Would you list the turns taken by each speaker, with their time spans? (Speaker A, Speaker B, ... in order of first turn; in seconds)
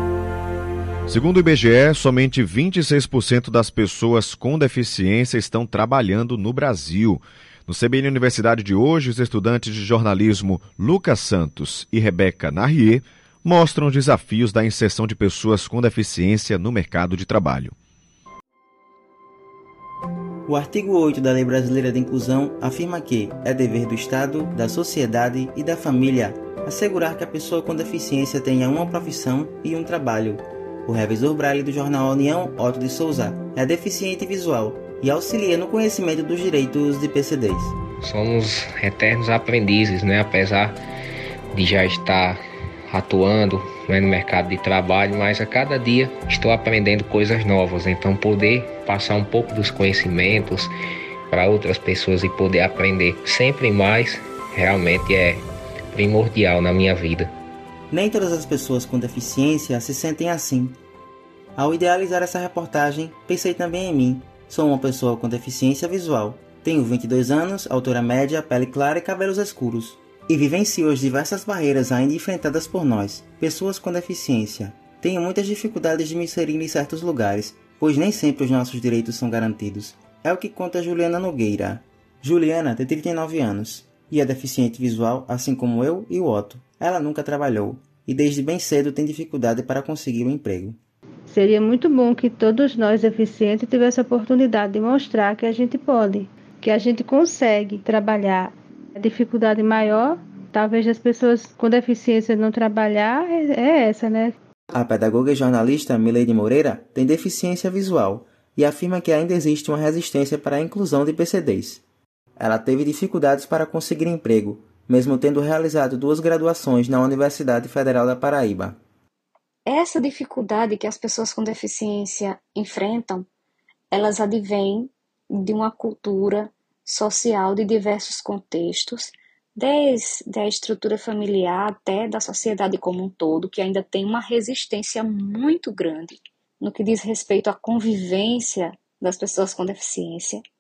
Speaker A: 1.1-17.7
Speaker B: 20.5-37.8, 57.9-60.8, 61.6-90.8, 104.7-111.8, 112.4-118.8
Speaker C: 38.0-40.8, 41.5-50.7, 51.3-57.3
Speaker D: 91.3-104.3
Speaker E: 119.7-123.3, 123.9-140.4